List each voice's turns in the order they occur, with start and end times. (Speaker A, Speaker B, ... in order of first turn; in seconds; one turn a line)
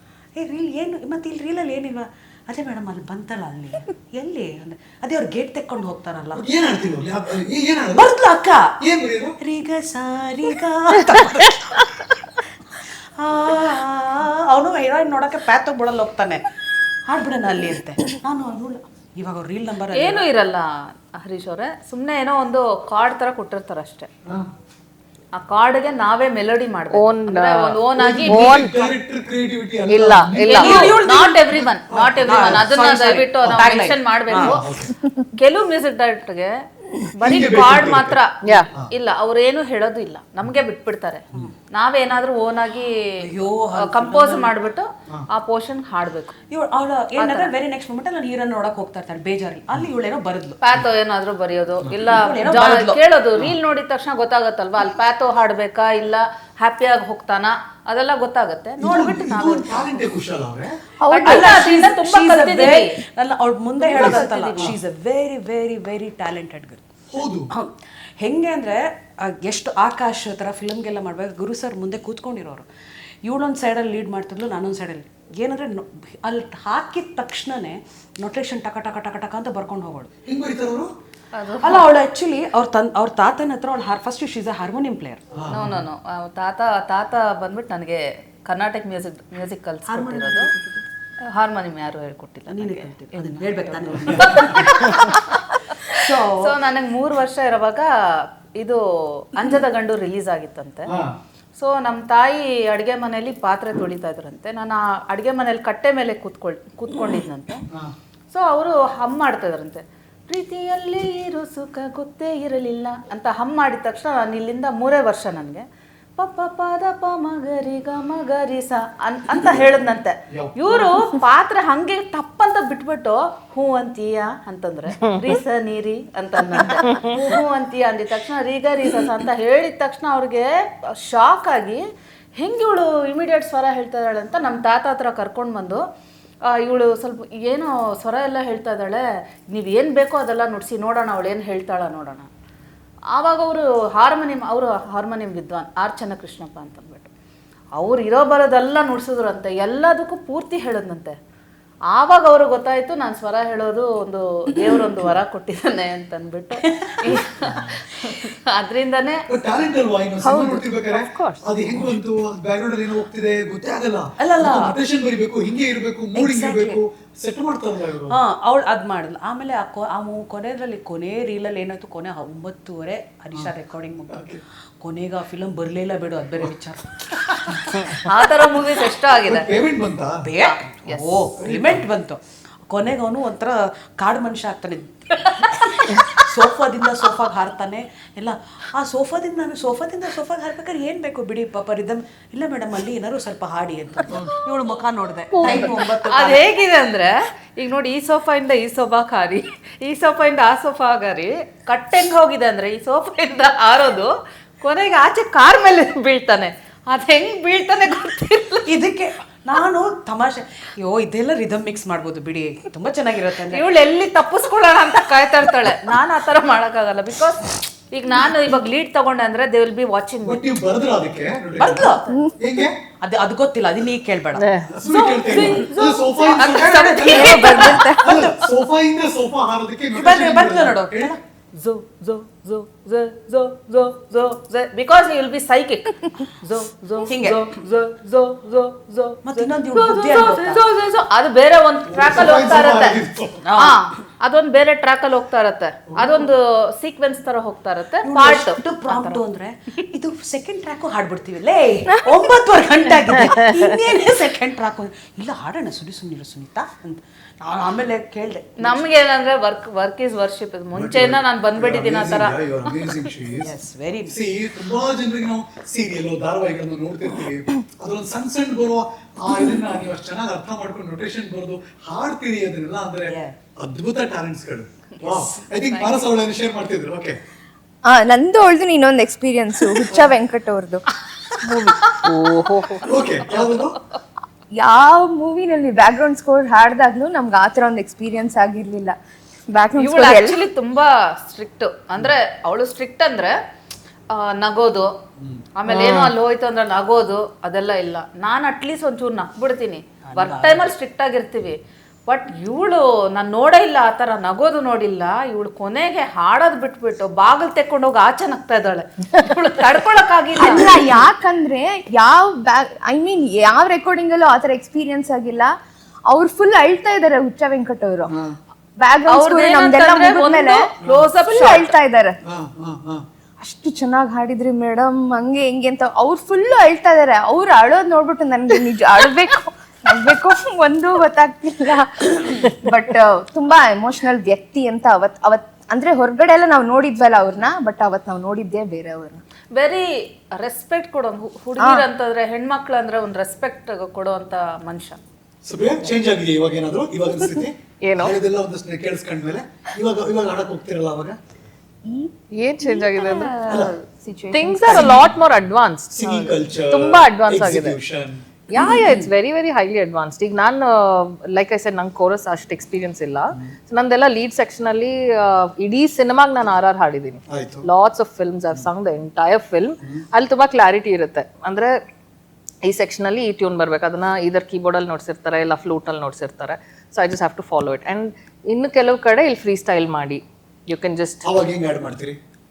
Speaker A: 0.4-6.5
Speaker B: 6.3-8.1
Speaker A: 7.9-8.7
Speaker B: 8.8-9.4
Speaker A: 9.4-12.1
Speaker A: 12.8-16.4
Speaker A: 17.1-20.2
Speaker C: 19.9-24.1
Speaker C: 25.3-28.6
Speaker D: 26.9-28.8
Speaker B: 27.9-30.7
Speaker D: 29.9-31.0
Speaker C: 30.4-34.7
Speaker A: 30.6-31.7
Speaker B: 31.9-32.7
Speaker A: 32.2-34.6
Speaker B: 33.5-33.7
Speaker B: 34.4-35.0
Speaker C: 35.4-36.5
Speaker C: 37.1-43.0
Speaker B: 37.2-38.2
Speaker D: 38.4-38.7
Speaker A: 43.2-44.5
Speaker C: 43.7-46.4
Speaker A: 46.5-50.6
Speaker C: 47.2-47.5
Speaker C: 50.6-59.9
Speaker A: 52.1-53.0
Speaker B: 58.8-60.8
Speaker E: 61.0-61.6
Speaker C: 61.1-62.9
Speaker A: 61.2-66.8
Speaker C: 63.8-64.7
Speaker B: 64.0-64.7
Speaker B: 67.1-67.5
Speaker A: 67.5-72.7
Speaker A: 73.2-80.1
Speaker B: 80.3-80.9
Speaker C: 81.3-81.9
Speaker A: 81.6-85.2
Speaker B: 85.3-85.8
Speaker C: 85.5-90.5
Speaker A: 89.9-90.9
Speaker C: 91.2-97.9
Speaker A: 92.5-95.2
Speaker A: 95.8-96.5
Speaker C: 98.6-100.9
Speaker B: 100.9-101.1
Speaker C: 101.6-107.6
Speaker C: 108.3-115.7
Speaker C: 116.2-131.8
Speaker B: 120.3-120.8
Speaker C: 132.4-135.8
Speaker C: 136.5-142.3
Speaker C: 143.1-147.1
Speaker C: 147.8-151.2
Speaker C: 151.9-159.2
Speaker B: 159.3-168.2
Speaker E: 160.2-160.7
Speaker D: 160.9-161.4
Speaker A: 164.2-164.8
Speaker A: 166.1-166.8
Speaker A: 168.1-174.3
Speaker B: 174.1-174.4
Speaker A: 174.8-178.0
Speaker C: 177.9-179.5
Speaker B: 179.2-180.2
Speaker A: 180.2-196.5
Speaker C: 180.4-181.2
Speaker B: 181.4-181.8
Speaker E: 195.4-195.7
Speaker C: 195.4-208.7
Speaker A: 208.7-213.6
Speaker C: 213.5-220.5
Speaker B: 220.2-222.8
Speaker A: 221.6-222.1
Speaker E: 222.1-222.3
Speaker A: 223.0-224.5
Speaker D: 224.4-224.7
Speaker B: 224.7-227.3
Speaker C: 224.9-228.3
Speaker A: 226.9-228.3
Speaker E: 227.0-228.2
Speaker B: 227.9-231.2
Speaker A: 229.9-231.2
Speaker C: 231.6-243.0
Speaker A: 237.1-237.5
Speaker A: 239.2-240.6
Speaker B: 241.9-243.4
Speaker A: 243.4-243.8
Speaker C: 243.6-249.2
Speaker B: 245.9-246.3
Speaker A: 248.0-258.8
Speaker C: 258.6-263.0
Speaker B: 260.7-263.5
Speaker A: 263.4-264.2
Speaker B: 264.1-277.2
Speaker A: 273.1-273.3
Speaker C: 275.0-276.0
Speaker E: 277.9-280.8
Speaker E: 281.4-281.9
Speaker D: 282.0-282.9
Speaker B: 282.8-283.8
Speaker E: 284.6-289.0
Speaker E: 289.5-290.4
Speaker C: 289.8-293.4
Speaker C: 294.1-294.9
Speaker B: 295.2-295.5
Speaker C: 295.6-310.7
Speaker E: 295.7-296.1
Speaker A: 300.1-300.7
Speaker E: 310.4-315.5
Speaker E: 316.1-318.1
Speaker B: 318.1-318.4
Speaker E: 318.8-320.7
Speaker C: 319.1-321.7
Speaker B: 320.8-321.1
Speaker E: 321.2-322.2
Speaker B: 322.2-323.1
Speaker E: 323.4-339.2
Speaker C: 339.5-345.0
Speaker E: 341.6-341.9
Speaker B: 345.4-351.2
Speaker D: 347.8-348.2
Speaker E: 351.9-355.0
Speaker D: 352.3-353.4
Speaker B: 353.4-353.7
Speaker D: 354.3-357.8
Speaker B: 354.7-355.1
Speaker B: 355.9-358.2
Speaker D: 358.5-371.8
Speaker E: 358.5-358.8
Speaker B: 367.3-367.7
Speaker D: 372.6-381.2
Speaker B: 381.2-382.2